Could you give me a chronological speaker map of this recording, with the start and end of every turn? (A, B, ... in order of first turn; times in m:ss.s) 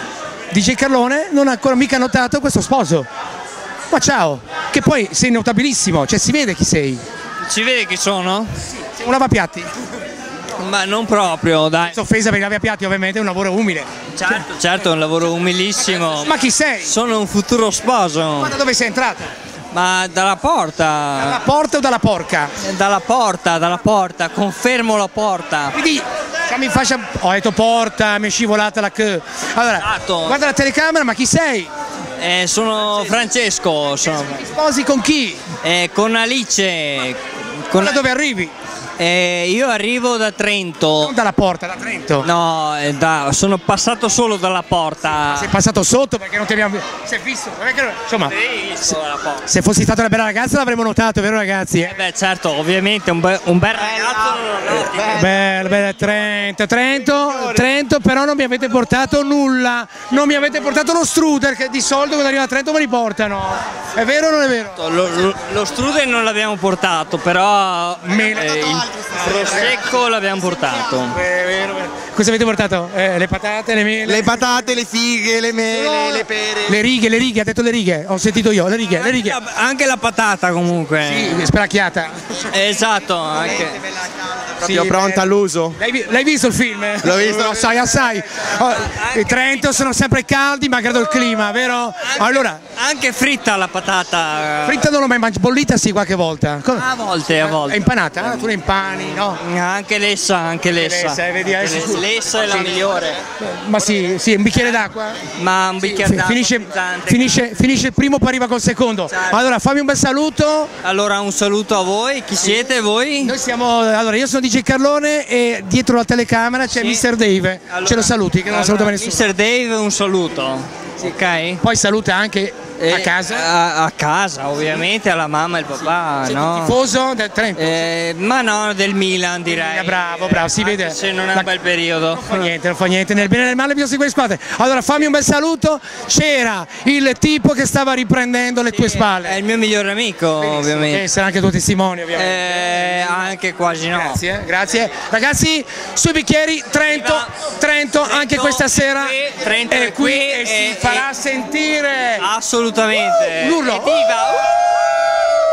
0:00.5-0:03.1 A
0:03.9-0:07.0 A
0:07.4-0:08.6 B
0:08.7-0:09.7 A
0:10.6-0:12.0 B
0:11.8-0:14.4 A
0:14.2-0:18.6 B
0:16.1-0:17.0 A
0:18.4-0:19.2 A
0:19.7-0:21.4 B
0:21.2-0:22.5 A
0:22.6-0:25.8 B
0:25.7-0:31.7 A
0:29.8-0:30.4 B
0:32.2-0:34.4 B
0:34.1-0:35.5 A
0:35.6-0:38.0 B
0:37.8-0:38.5 A
0:39.0-0:41.1 B
0:41.0-0:42.3 A
0:42.2-0:45.5 B
0:45.0-0:48.4 A
0:48.3-0:49.5 B
0:49.5-0:52.0 A
0:51.8-0:55.3 B
0:54.7-1:04.8 A
1:04.8-1:11.2 B
1:08.1-1:09.4 A
1:08.6-1:09.2 C
1:11.1-1:14.4 A
1:14.1-1:16.7 C
1:15.7-1:19.4 A
1:18.9-1:21.4 B
1:21.0-1:22.4 A
1:22.5-1:23.9 B
1:24.6-1:32.6 A
1:24.7-1:25.7 C
1:27.0-1:27.8 C
1:28.8-1:29.9 B
1:32.1-1:34.9 B
1:34.6-1:39.4 A
1:36.7-1:38.5 B
1:39.2-1:43.2 B
1:40.8-1:45.3 A
1:44.6-1:47.4 B
1:45.8-1:50.7 A
1:49.1-1:49.4 B
1:50.8-1:53.4 B
1:53.2-1:59.3 A
1:56.7-1:57.0 B
1:57.7-2:01.6 B
2:01.6-2:03.5 A
2:02.8-2:06.8 B
2:06.2-2:07.9 A
2:07.6-2:12.5 B
2:09.5-2:11.5 A
2:12.1-2:19.4 A
2:18.7-2:21.1 B
2:20.4-2:23.4 A
2:22.1-2:24.2 B
2:23.9-2:32.3 A
2:26.9-2:27.4 B
2:28.0-2:31.1 B
2:32.2-2:34.6 B
2:33.3-2:34.1 A